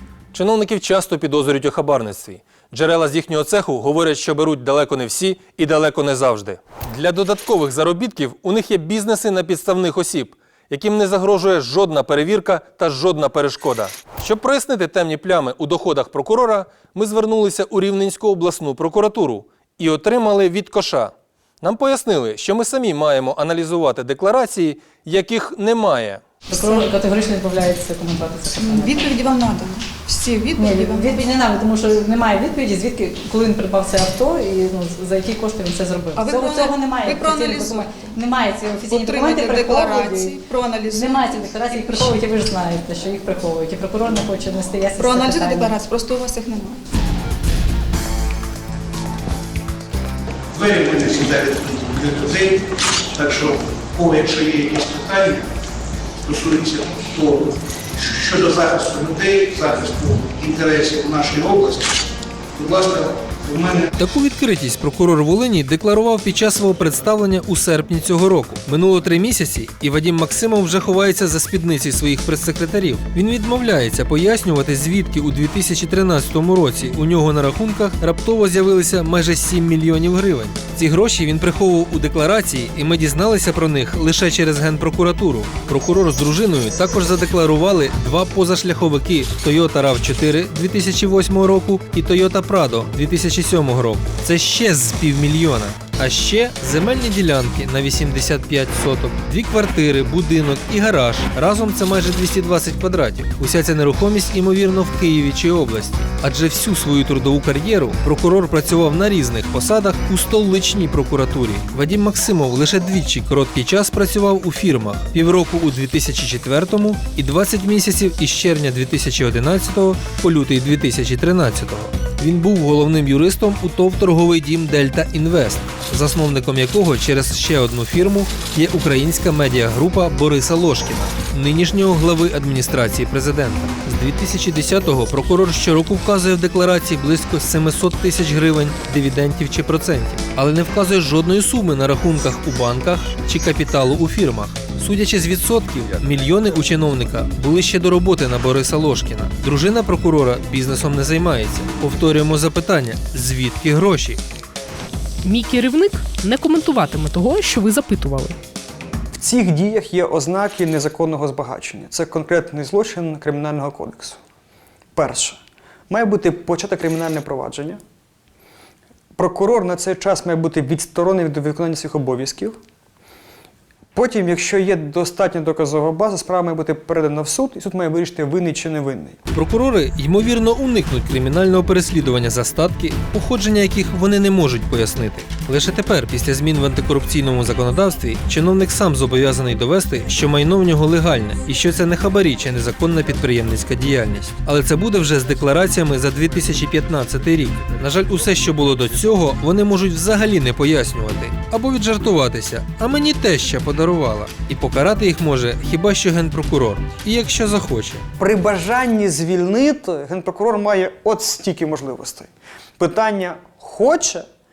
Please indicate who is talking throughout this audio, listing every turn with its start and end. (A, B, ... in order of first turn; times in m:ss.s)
0:00.3-0:26.2 A
0:26.5-0:29.1 B
0:26.5-0:26.9 C
0:28.6-0:31.2 C
0:30.6-0:40.4 B
0:36.2-0:38.1 C
0:38.8-0:42.2 C
0:40.9-0:45.8 B
0:44.9-0:46.8 C
0:50.5-0:52.6 D
0:53.1-0:55.5 D
0:56.2-1:01.9 D
1:02.6-1:03.9 D
1:04.0-2:34.2 A
2:35.2-2:38.4 E
2:39.2-2:44.2 F
2:45.0-2:47.8 F
2:49.2-2:52.6 F
2:54.0-2:59.2 F
2:59.3-3:28.0 A
3:28.2-3:34.3 F